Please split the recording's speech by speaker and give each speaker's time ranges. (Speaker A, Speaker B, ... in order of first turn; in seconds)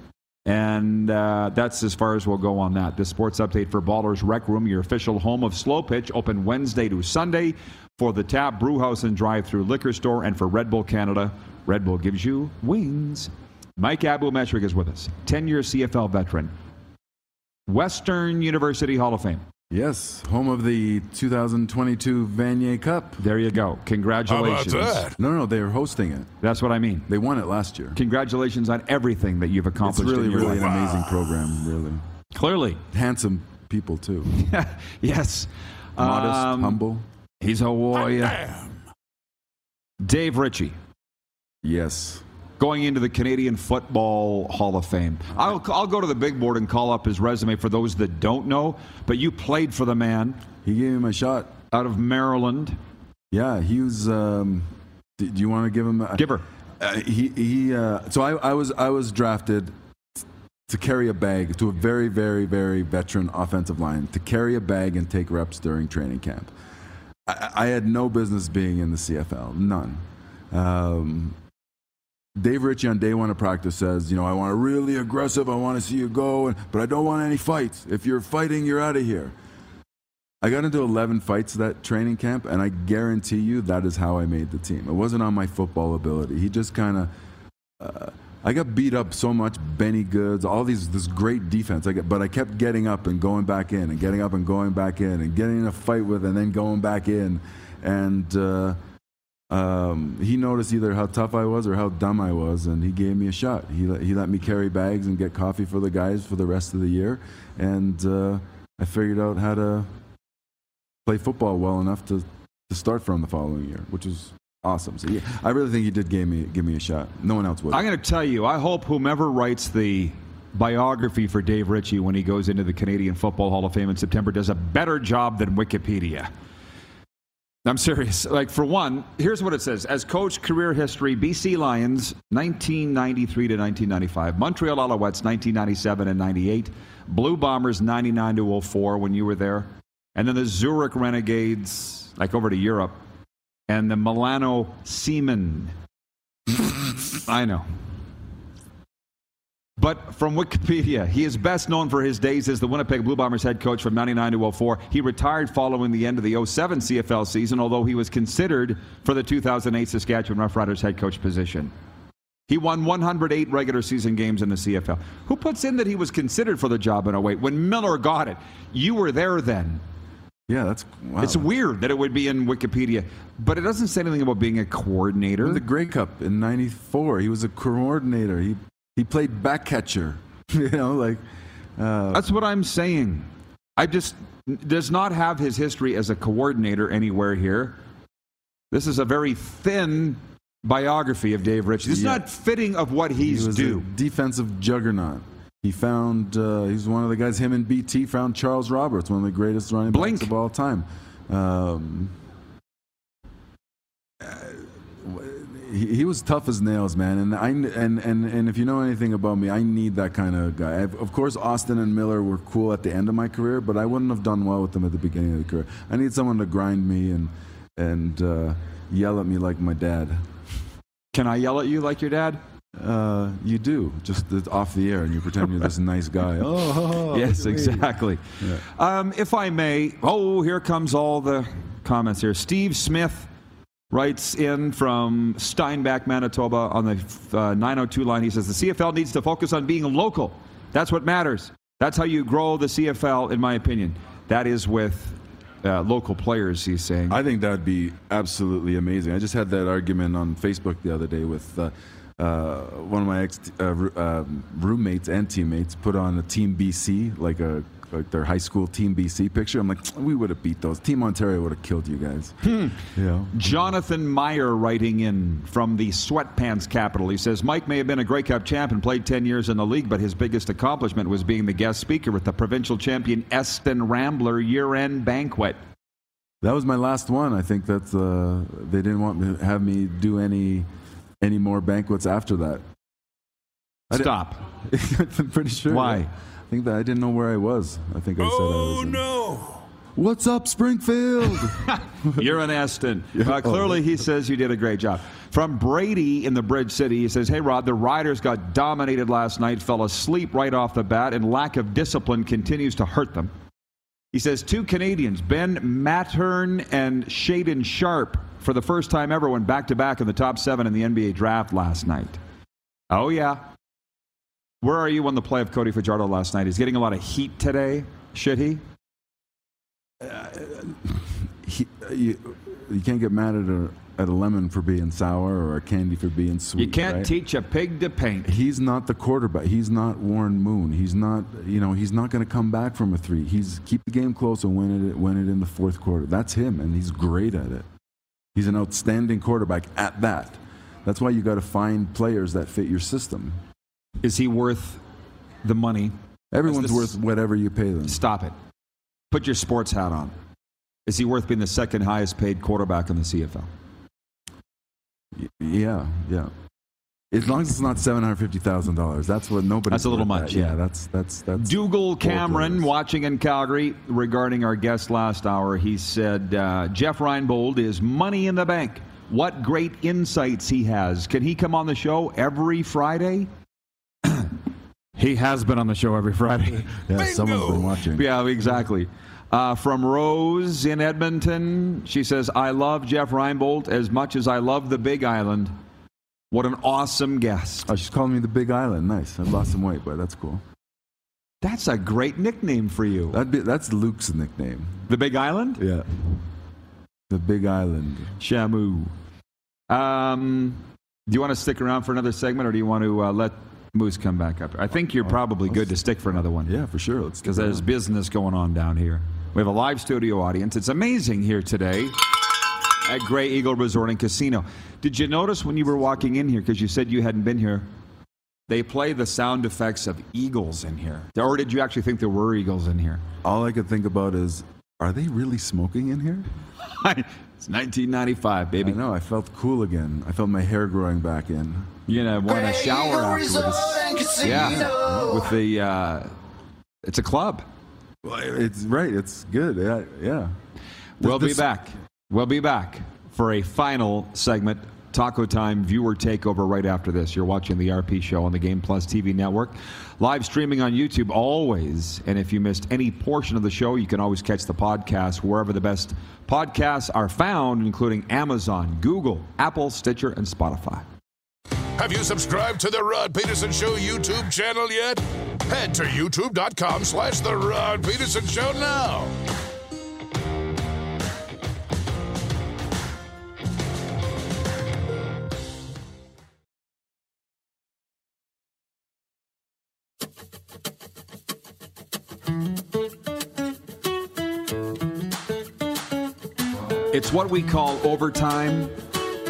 Speaker A: 0.5-16.5, 17.7-19.4, 23.2-25.1, 26.4-27.1, 28.0-30.7, 32.3-32.8, 34.3-36.8, 37.4-38.7, 40.0-40.8, 42.6-50.4, 51.7-52.8, 56.2-56.5, 117.7-126.3, 127.7-143.0, 143.7-145.7, 147.1-147.7, 149.8-161.7, 162.5-169.8, 171.2-175.6, 182.1-187.8, 188.7-193.9, 199.9-200.3, 221.1-222.4, 227.1-233.3, 233.9-247.2, 262.4-262.8, 263.3-275.6, 283.9-284.4, 285.7-286.1, 291.4-303.3, 304.1-312.2, 312.9-313.4, 314.6-318.6, 326.6-328.3, 344.0-344.8, 345.4-345.9, 346.5-346.9, 347.9-348.4, 349.1-350.1, 350.9-353.5, 359.7-360.6, 361.4-373.3, 374.0-374.4, 375.0-376.8, 377.9-385.5, 386.3-387.7, 391.4-393.2, 394.9-395.6, 398.2-398.9, 399.7-406.5, 407.2-412.0, 412.9-417.7, 418.5-423.0, 426.6-428.8, 431.9-436.1, 436.8-437.4, 441.0-460.9, 486.9-488.7
Speaker B: 19.7-23.2, 25.2-26.3, 27.1-28.0, 29.8-32.0, 32.9-34.4, 36.0-37.0, 41.6-42.2, 50.6-51.5, 53.3-56.2, 56.8-66.5, 67.3-71.4, 72.4-79.3, 80.4-87.1, 87.8-98.8, 99.5-109.9, 111.0-117.8, 170.5-171.5, 175.4-181.2, 181.8-182.3, 191.8-192.3, 193.2-202.1, 204.2-220.3, 222.8-227.9, 247.1-263.3, 276.4-280.7, 281.2-282.6, 283.9-289.1, 290.0-292.2, 293.1-293.9, 320.0-327.1, 328.2-337.7, 338.4-343.4, 346.3-348.0, 355.1-356.3, 357.1-362.7, 376.9-378.1, 387.7-390.4, 393.1-394.8, 395.6-395.9, 397.1-398.2, 406.4-407.6, 423.2-426.3, 428.6-431.9, 434.0-435.2, 438.0-440.3, 441.0-441.5
Speaker C: 24.3-25.2, 288.2-289.6, 377.0-377.7, 461.8-469.1